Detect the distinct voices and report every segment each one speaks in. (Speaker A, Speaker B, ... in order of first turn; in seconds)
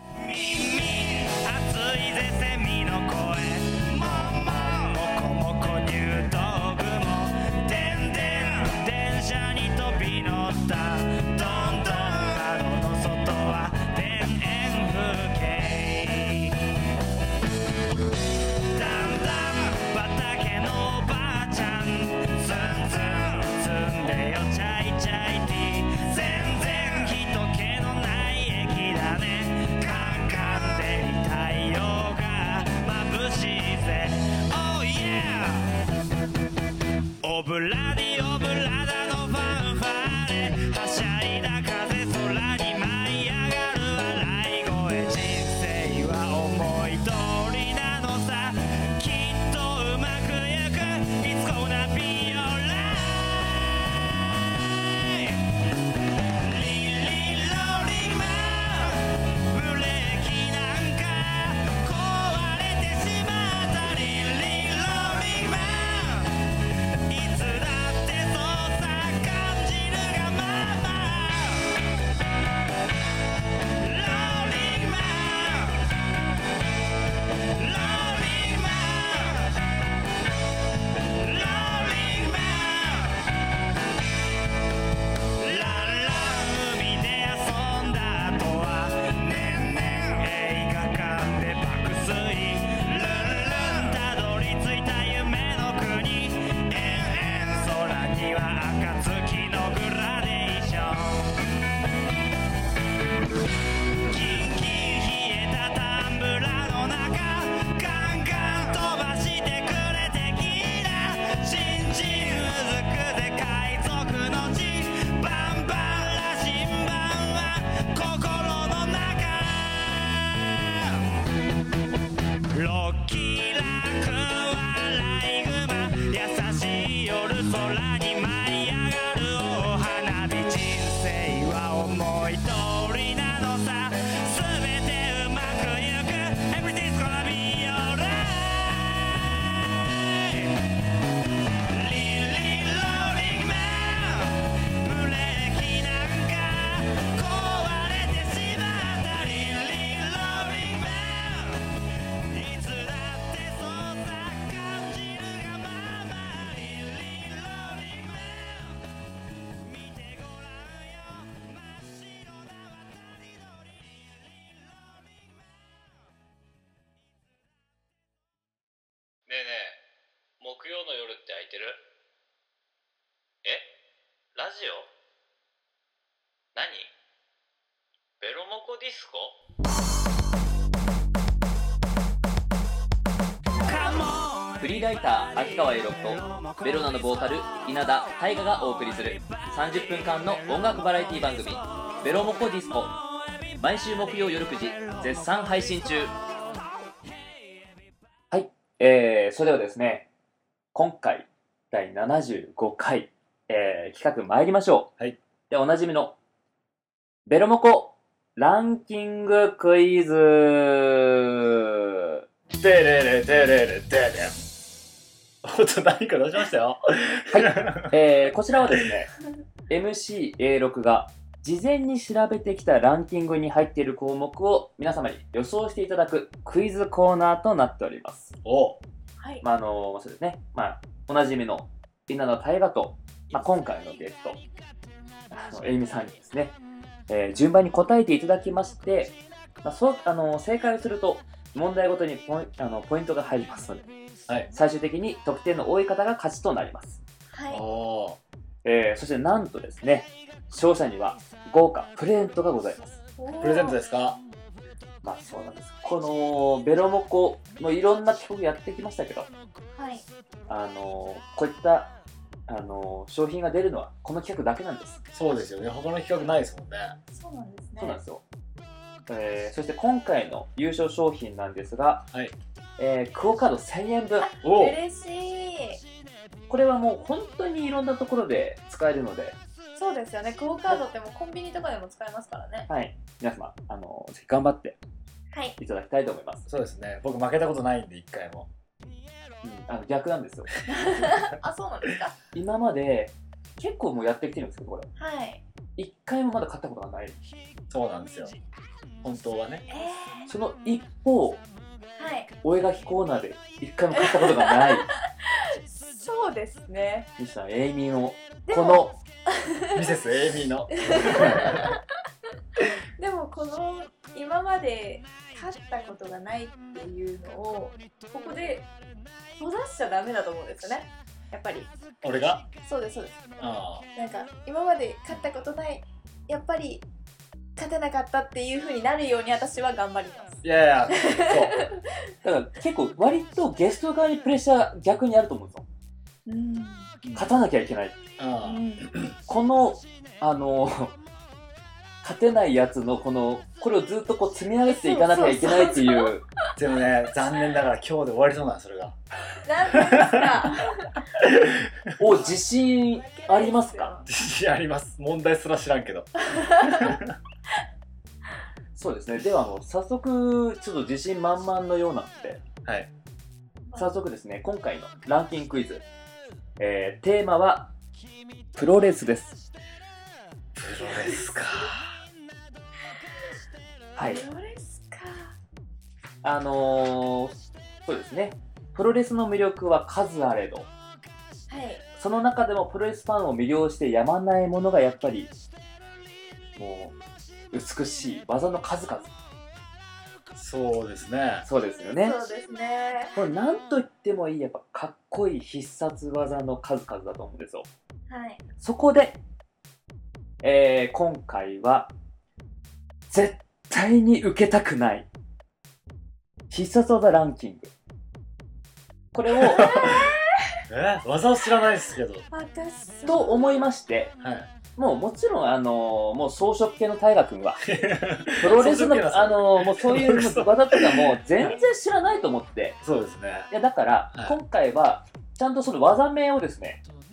Speaker A: 0.2-16.6, 18.7-35.7, 37.2-53.6, 54.7-55.5, 56.4-66.5, 67.1-71.8, 73.8-75.9, 77.5-79.7, 81.1-83.3, 85.4-101.4, 104.0-121.2, 122.5-140.6, 141.7-158.8, 159.6-165.2, 183.6-184.6
Speaker B: 169.3-169.8, 170.4-171.8, 173.4-173.7, 174.3-174.9, 176.6-176.9, 178.2-179.4
Speaker C: 184.6-193.0, 193.6-196.2, 198.3-200.1, 200.7-204.9, 205.5-206.2, 207.3-212.2, 217.3-219.1, 219.7-228.3, 229.4-234.4, 235.3-236.6, 237.1-243.9, 244.5-247.0, 248.6-253.0, 255.0-259.3, 260.5-261.9, 262.5-265.0, 267.8-268.2, 269.1-272.1, 272.8-274.3, 276.5-279.4, 282.7-284.8, 285.6-286.5, 289.4-290.5, 292.3-294.9, 295.8-297.2, 300.3-301.4, 302.4-304.9, 307.2-309.0, 332.2-335.6, 337.1-338.0, 339.3-341.0, 342.0-346.2, 352.0-354.0, 358.8-362.4, 363.8-365.8, 366.6-367.7, 368.6-369.4, 374.0-374.2, 376.2-377.3, 377.9-380.7, 382.0-385.3, 386.6-387.0, 387.5-389.1, 391.4-392.1, 393.1-397.7, 398.6-399.2, 400.4-401.9, 403.1-405.1, 406.5-407.7, 409.1-410.0, 413.1-414.1, 414.8-417.7, 418.3-422.8, 423.5-426.8
Speaker D: 212.5-214.4, 215.4-218.0, 228.4-228.8, 247.5-248.2, 253.4-254.2, 265.1-267.0, 274.4-274.8, 286.5-288.5, 297.7-298.4, 299.0-299.7, 309.7-311.7, 322.0-322.5, 323.4-323.9, 330.4-331.7, 337.0-337.4, 338.2-339.1, 346.6-349.0, 349.7-350.5, 351.2-351.7, 354.1-356.1, 356.6-357.1, 362.6-362.9, 370.6-371.9, 390.4-391.5, 409.4-410.1, 410.7-412.3, 414.2-414.5, 417.7-421.6, 422.8-423.5, 424.1-424.4
Speaker E: 229.2-229.4, 247.3-247.6, 253.2-253.8, 259.8-260.1, 267.1-268.0, 274.2-275.8, 279.8-282.7, 290.7-292.1, 295.0-295.4, 299.7-300.3, 302.0-302.3, 304.0-307.1, 308.5-309.8, 310.8-311.8, 313.0-318.7, 319.4-321.7, 322.6-323.4, 324.0-326.9, 327.6-331.8, 336.3-337.0, 338.4-338.9, 344.7-346.1, 349.4-351.0, 352.2-354.1, 356.3-357.0, 370.9-371.5, 374.0-375.3, 381.5-381.8, 392.0-393.2, 398.1-398.4, 409.6-410.6, 412.3-413.7